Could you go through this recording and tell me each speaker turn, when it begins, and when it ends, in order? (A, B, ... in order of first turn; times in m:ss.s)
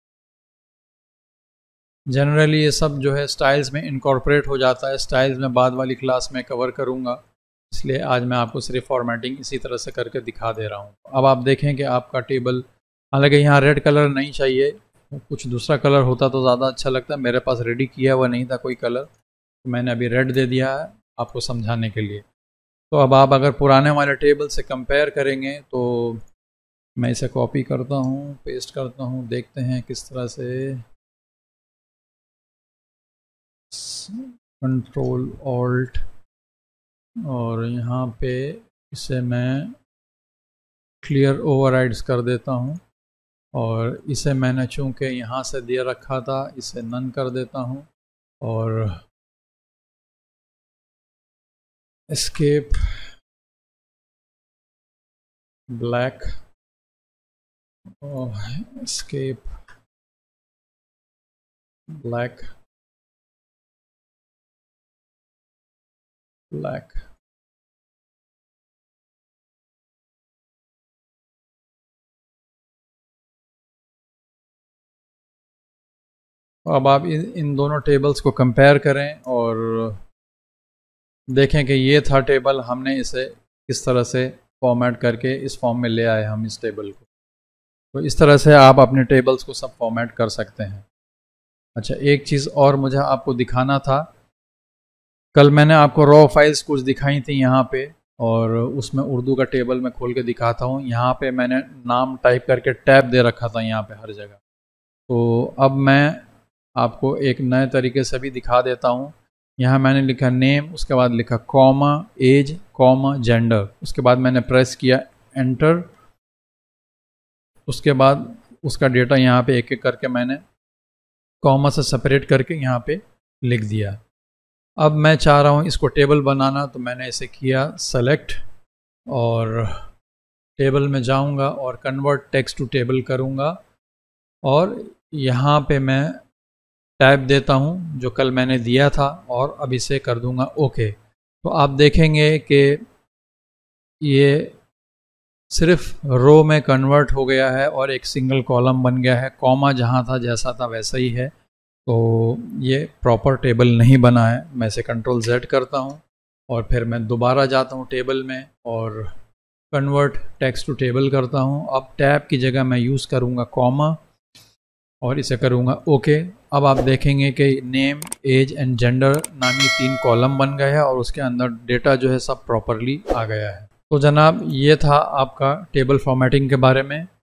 0:02.1-0:19.1 A
0:19.6-0:22.2 A
0:22.9-0:26.2 A
0:27.0-0:30.8 A
0:33.7-0:36.0 A
0:37.2-0:39.7 A
0:41.0-0:42.8 A
0:43.5-0:47.9 A
0:48.4-0:49.0 A
0:52.1-0:53.1 A
0:55.7-0:56.4 A
0:58.0-0:59.6 A
1:01.9-1:02.5 A
1:06.5-1:07.1 A
1:16.7-1:20.0 A
1:21.3-1:27.1 A
1:27.9-1:30.8 A
1:31.8-1:34.1 A
1:35.3-1:44.4 A
1:45.1-1:46.2 A
1:46.8-1:55.9 A
1:57.7-2:00.4 A
2:01.4-2:04.0 A
2:04.8-2:08.4 A
2:09.1-2:09.9 A
2:10.6-2:13.6 A
2:14.4-2:16.2 A
2:17.0-2:22.8 A
2:24.0-2:24.6 A
2:25.5-2:31.3 A
2:31.9-2:39.1 A
2:39.7-2:44.0 A
2:45.0-2:57.1 A